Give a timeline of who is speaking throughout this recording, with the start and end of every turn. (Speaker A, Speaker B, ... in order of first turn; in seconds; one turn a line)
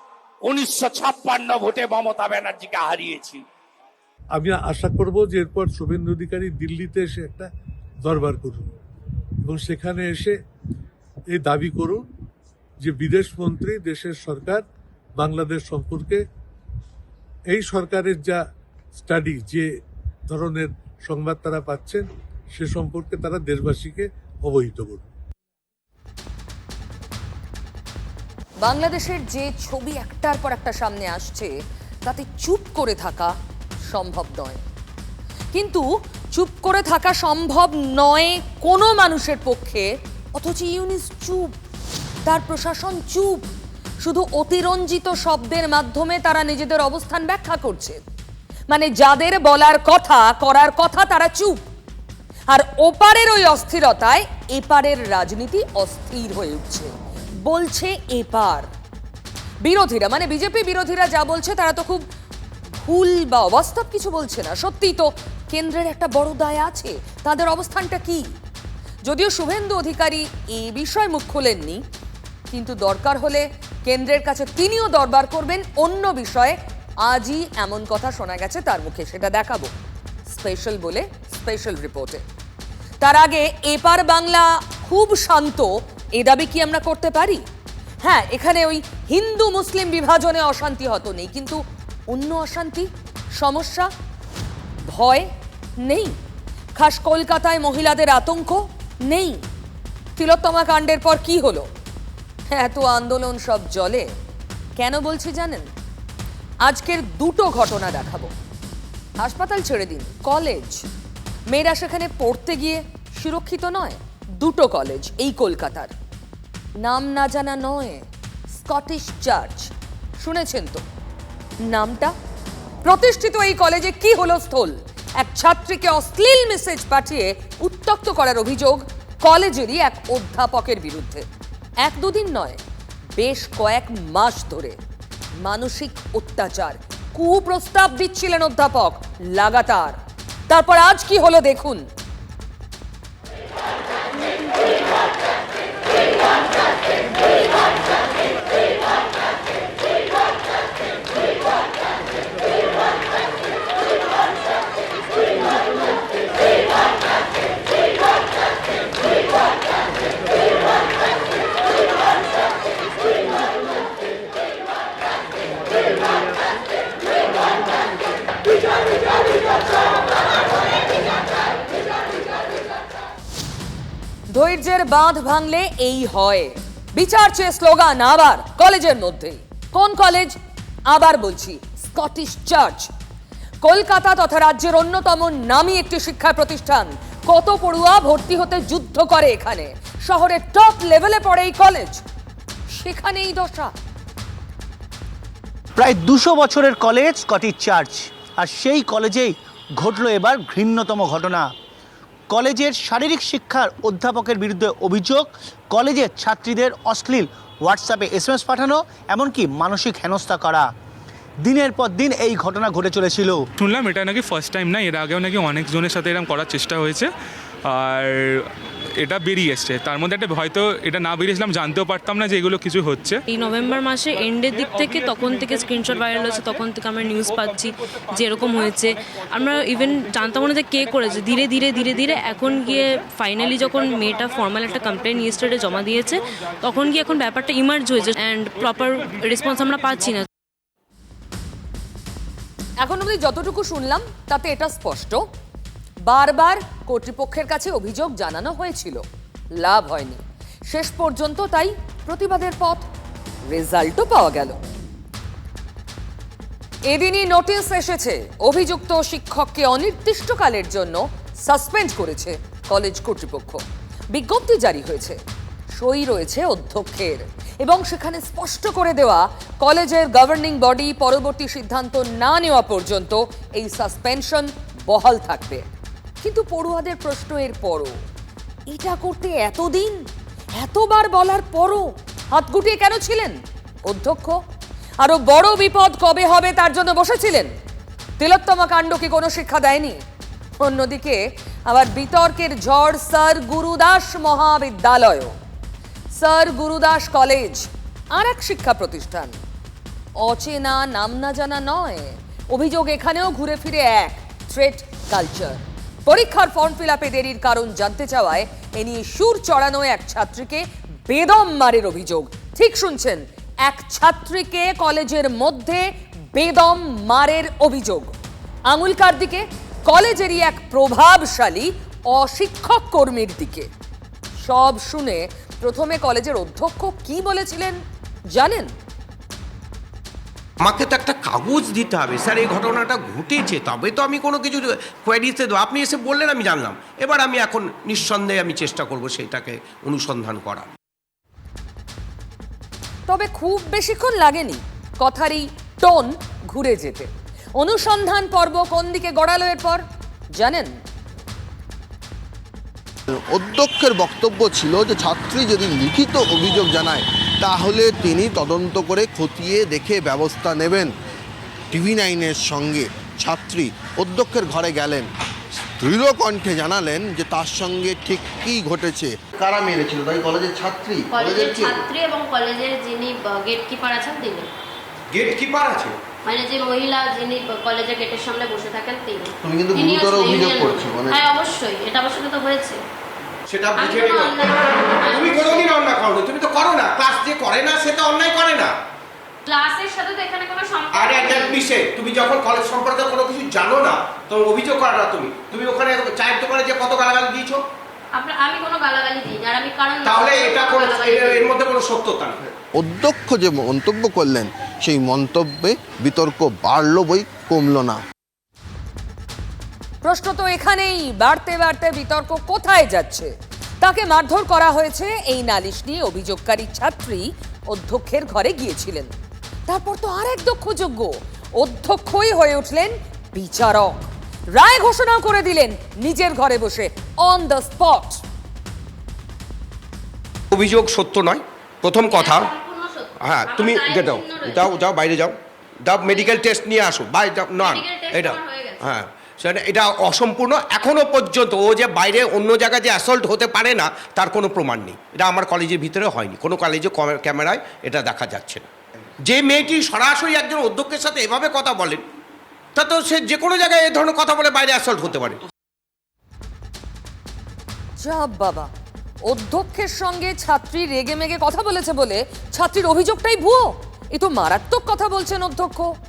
Speaker A: 0.4-3.4
Speaker B: 4.3-7.5
Speaker B: 8.0-8.6
Speaker B: 9.4-10.3
Speaker B: 11.3-12.0
Speaker B: 12.8-14.6
Speaker B: 15.2-16.2
Speaker B: 17.5-18.4
Speaker B: 19.0-19.6
Speaker B: 20.3-22.0
Speaker B: 22.6-25.0
Speaker C: 28.6-31.5
Speaker C: 32.0-33.3
Speaker C: 33.9-34.6
Speaker C: 35.5-41.5
Speaker C: 42.2-43.5
Speaker C: 44.0-48.0
Speaker C: 48.7-51.6
Speaker C: 52.5-56.9
Speaker C: 57.4-58.7
Speaker C: 59.6-62.0
Speaker C: 62.8-68.2
Speaker C: 69.0-71.8
Speaker C: 72.5-79.7
Speaker C: 80.3-82.2
Speaker C: 83.0-87.4
Speaker C: 88.0-92.9
Speaker C: 93.4-93.9
Speaker C: 94.9-95.3
Speaker C: 95.8-96.1
Speaker C: 96.8-99.4
Speaker C: 100.2-101.7
Speaker C: 102.5-104.1
Speaker C: 104.8-105.7
Speaker C: 106.6-108.3
Speaker C: 109.2-110.8
Speaker C: 111.5-115.9
Speaker C: 116.8-120.8
Speaker C: 121.7-122.1
Speaker C: 122.8-131.2
Speaker C: 131.8-132.6
Speaker C: 133.2-134.8
Speaker C: 135.4-140.0
Speaker C: 140.5-141.8
Speaker C: 174.3-180.4
Speaker C: 180.9-182.9
Speaker C: 183.6-192.0
Speaker C: 192.7-193.7
Speaker D: 195.8-201.5
Speaker D: 202.3-210.7
Speaker D: 211.4-213.4
Speaker E: 213.6-217.1
Speaker E: 217.7-218.4
Speaker E: 219.0-223.2
Speaker F: 223.3-240.2
Speaker C: 242.8-245.2
Speaker C: 246.1-249.0
Speaker C: 249.6-252.9
Speaker C: 253.5-254.6
Speaker C: 256.9-263.6
Speaker C: 264.1-265.2
Speaker C: 265.8-275.6
Speaker C: 276.2-277.9
Speaker C: 278.7-280.0
Speaker C: 280.6-284.4
Speaker C: 285.0-287.5
Speaker C: 288.2-290.0
Speaker C: 290.6-295.3
Speaker C: 296.1-299.4
Speaker C: 300.2-318.1
Speaker C: 318.7-323.7
Speaker C: 324.4-327.8
Speaker C: 328.3-328.7
Speaker G: 330.6-340.7
Speaker C: 343.1-349.8
Speaker C: 350.3-350.7
Speaker H: 353.1-360.9
Speaker H: 361.7-365.1
Speaker H: 365.8-371.9
Speaker I: 371.1-374.5
Speaker G: 375.1-375.9
Speaker I: 376.2-382.8
Speaker H: 379.4-381.2
Speaker G: 383.5-384.4
Speaker I: 383.8-385.7
Speaker G: 385.1-388.7
Speaker I: 389.4-391.6
Speaker G: 390.9-397.6
Speaker I: 398.1-401.6
Speaker G: 400.0-402.4
Speaker H: 402.8-408.0
Speaker C: 410.0-413.3
Speaker C: 413.8-419.1
Speaker C: 419.7-428.2
Speaker G: 430.5-432.5
Speaker I: 432.1-434.8
Speaker G: 433.2-435.4
Speaker G: 435.9-448.6
Speaker I: 436.1-436.4
Speaker I: 437.6-438.9
Speaker G: 449.2-452.0
Speaker G: 452.7-455.4
Speaker C: 458.0-458.7
Speaker C: 459.3-465.9